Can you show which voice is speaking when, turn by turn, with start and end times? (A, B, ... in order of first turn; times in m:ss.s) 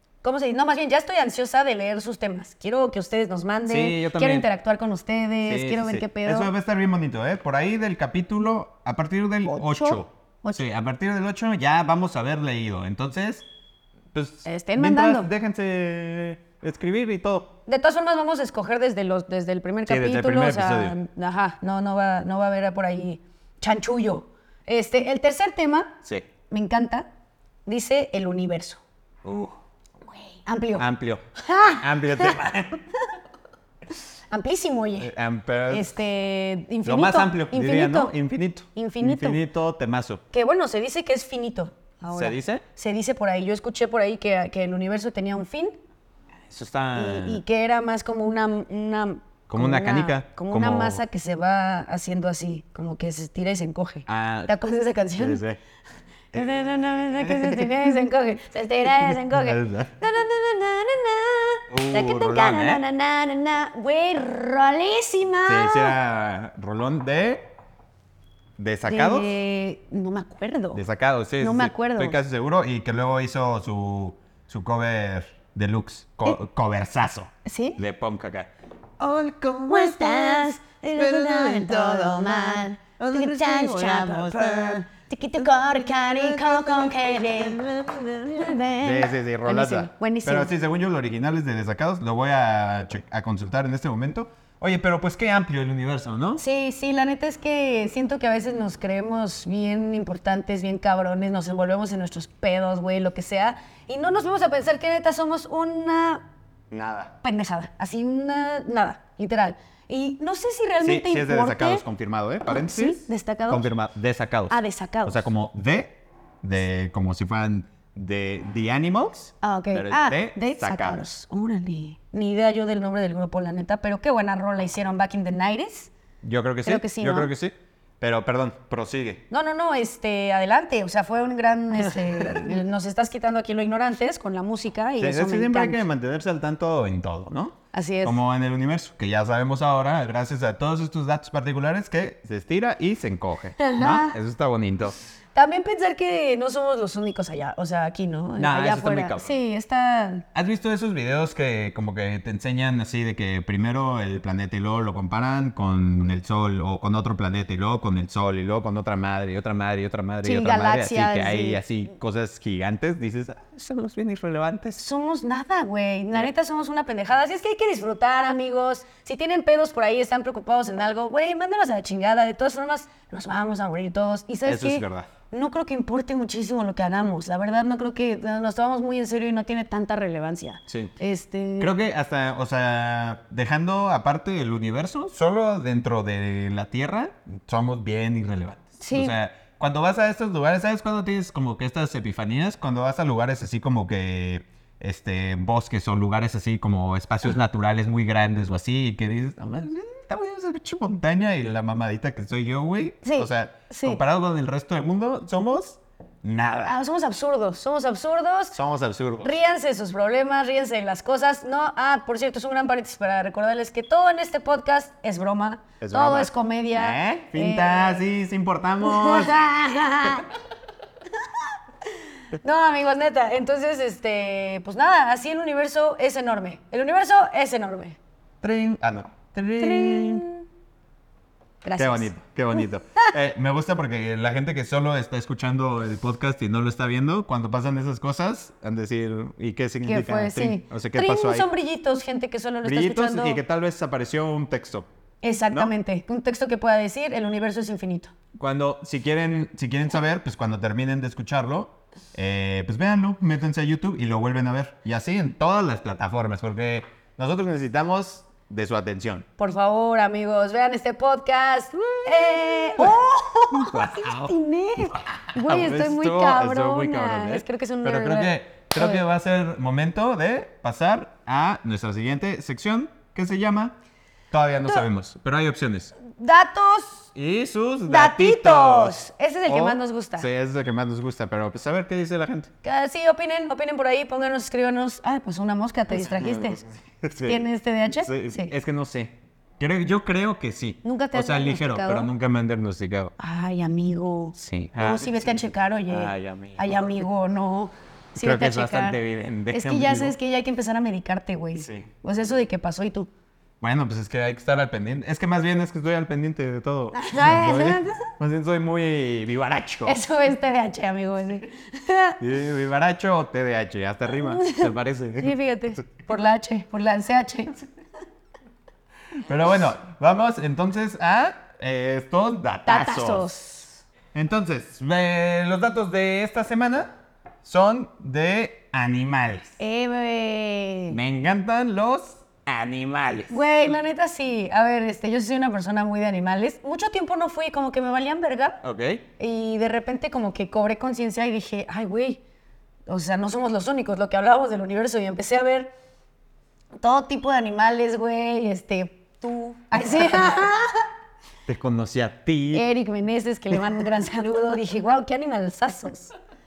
0:00.2-0:06.5 A
0:03.7-0:04.5 B
0:05.5-0:13.5 B
0:09.5-0:10.6 A
0:14.1-0:17.6 B
0:14.4-0:15.3 A
0:17.7-0:26.0 A
0:19.9-0:21.0 B
0:26.5-0:27.1 A
0:27.7-0:28.8 A
0:29.2-0:29.5 B
0:30.4-0:30.8 A
0:30.8-0:32.8 B
0:31.4-0:32.4 A
0:34.3-0:35.1 A
0:35.0-0:35.9 B
0:35.7-0:38.1 A
0:36.8-0:40.2 B
0:38.8-0:39.4 A
0:40.3-0:45.8 A
0:42.1-0:42.6 B
0:46.5-0:47.4 B
0:47.0-0:55.4 A
0:49.5-0:51.0 B
0:54.1-0:54.5 B
0:55.2-0:55.6 B
0:56.3-1:06.0 A
0:57.2-0:57.7 B
0:59.1-0:59.9 B
1:01.7-1:02.8 B
1:05.5-1:07.5 B
1:08.6-1:09.4 B
1:08.9-1:10.8 A
1:10.7-1:24.9 B
1:11.4-1:12.2 A
1:17.4-1:17.8 A
1:19.7-1:27.6 A
1:26.0-1:36.4 B
1:28.3-1:30.5 A
1:36.4-1:46.3 A
1:46.7-1:47.1 B
1:47.2-1:51.8 A
1:50.8-2:01.0 B
1:52.5-1:53.7 A
1:54.5-1:55.3 A
1:59.4-2:05.9 A
2:06.2-2:09.3 B
2:06.6-2:07.3 A
2:09.3-2:15.8 A
2:12.2-2:12.5 B
2:15.0-2:25.0 B
2:17.7-2:18.2 A
2:23.6-2:24.2 A
2:25.4-2:30.3 A
2:28.4-2:29.3 B
2:30.3-2:44.8 B
2:40.2-2:41.6 A
2:44.8-3:01.7 A
2:54.4-2:55.1 B
3:00.7-3:00.9 B
3:01.6-3:26.8 B
3:08.8-3:09.1 A
3:23.0-3:24.0 A
3:26.7-3:28.6 A
3:28.5-3:29.3 B
3:29.2-3:38.0 A
3:35.8-3:39.5 B
3:38.8-3:40.3 A
3:41.2-3:41.5 A
3:42.3-3:48.0 A
3:48.4-3:50.2 B
3:49.6-3:50.4 A
3:51.6-3:53.0 A
3:51.8-4:01.5 B
3:59.8-4:03.4 A
4:02.6-4:04.9 B
4:05.2-4:08.1 A
4:08.4-4:19.3 B
4:19.4-4:29.0 A
4:21.9-4:24.3 B
4:25.1-4:33.8 B
4:34.3-4:35.9 B
4:36.1-4:37.1 A
4:37.1-4:42.5 B
4:37.9-4:40.3 A
4:42.6-4:46.6 A
4:46.0-4:47.4 B
4:47.2-4:48.5 A
4:48.0-4:53.1 B
4:50.8-4:52.1 A
4:53.2-4:59.0 A
4:54.4-4:56.8 B
4:58.2-5:00.2 B
4:59.5-5:03.1 A
5:01.6-5:01.9 B
5:03.6-5:10.0 B
5:06.9-5:08.1 A
5:09.9-5:12.2 A
5:12.2-5:15.4 B
5:14.1-5:17.6 A
5:19.3-5:23.3 B
5:22.7-5:23.8 A
5:24.1-5:26.9 B
5:27.4-5:29.6 B
5:29.6-5:31.0 A
5:30.9-5:33.4 B
5:33.3-5:38.6 A
5:38.6-5:39.0 B
5:39.2-5:42.2 A
5:42.9-5:45.7 A
5:46.8-5:50.9 A
5:51.5-5:52.6 B
5:52.5-5:56.1 A